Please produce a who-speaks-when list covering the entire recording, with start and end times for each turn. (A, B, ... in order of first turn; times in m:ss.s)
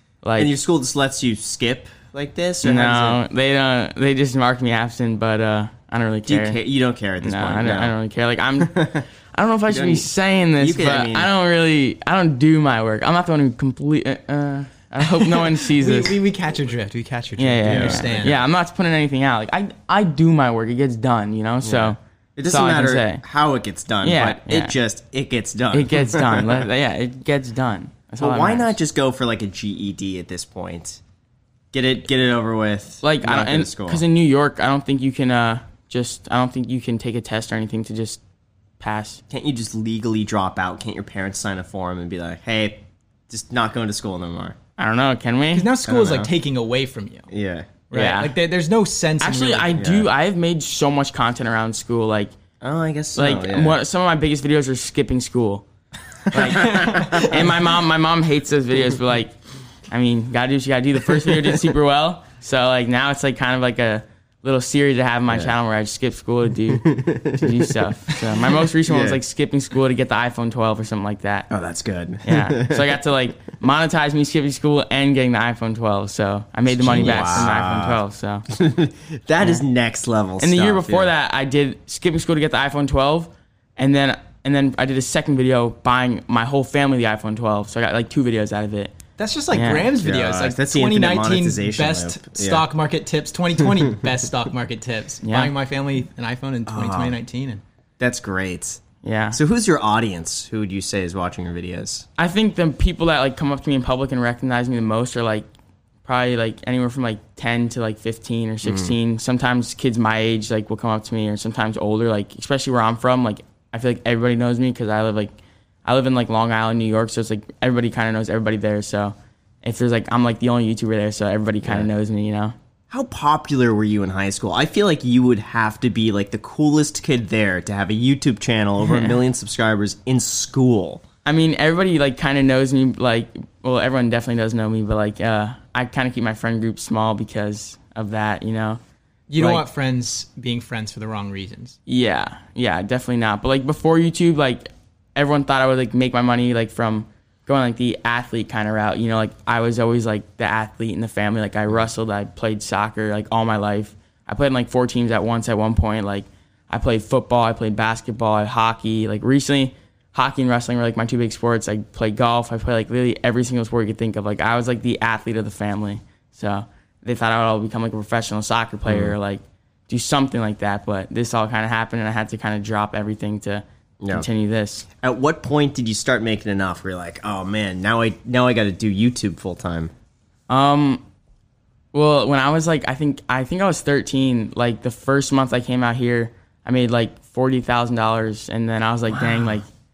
0:00.2-0:00.5 A
0:00.4-0:03.2 B
0:02.6-0:06.6 A
0:06.3-0:07.9 B
0:07.2-0:16.2 A
0:08.6-0:09.0 B
0:09.7-0:10.1 B
0:10.6-0:11.3 B
0:15.2-0:18.4 C
0:17.4-0:23.2 A
0:17.6-0:18.4 B
0:21.6-0:26.7 B
0:24.0-0:24.8 A
0:25.7-0:28.8 A
0:28.2-0:31.0 B
0:31.7-0:34.0 B
0:33.0-0:38.2 A
0:38.8-0:39.2 A
0:39.3-0:44.6 B
0:44.8-0:45.7 A
0:45.5-0:47.3 C
0:45.8-0:46.3 B
0:47.3-0:47.7 B
0:47.9-0:49.7 C
0:47.9-0:48.3 A
0:49.2-0:52.3 A
0:49.7-0:50.1 B
0:52.6-0:53.8 B
0:53.2-0:55.6 A
0:56.3-0:59.4 A
0:56.3-0:57.5 B
0:59.9-1:11.5 A
1:05.3-1:05.5 B
1:06.7-1:07.7 B
1:08.8-1:09.2 B
1:11.5-1:13.0 B
1:12.2-1:18.4 A
1:16.7-1:21.1 B
1:20.4-1:28.9 A
1:29.2-1:37.6 C
1:29.5-1:29.9 A
1:30.0-1:32.6 B
1:35.2-1:35.5 A
1:36.7-1:37.2 B
1:38.0-1:38.8 B
1:39.0-1:39.4 A
1:39.3-1:42.0 B
1:42.2-1:45.4 A
1:46.0-1:55.3 A
1:48.6-1:48.9 B
1:55.8-2:02.5 A
2:02.9-2:11.0 B
2:08.8-2:09.1 A
2:11.2-2:18.8 A
2:19.3-2:21.8 C
2:19.4-2:19.6 A
2:21.9-2:54.8 A
2:48.8-2:49.1 B
2:54.0-2:54.3 B
2:55.0-2:59.9 B
3:00.5-3:01.0 A
3:01.9-3:09.7 A
3:09.1-3:09.6 B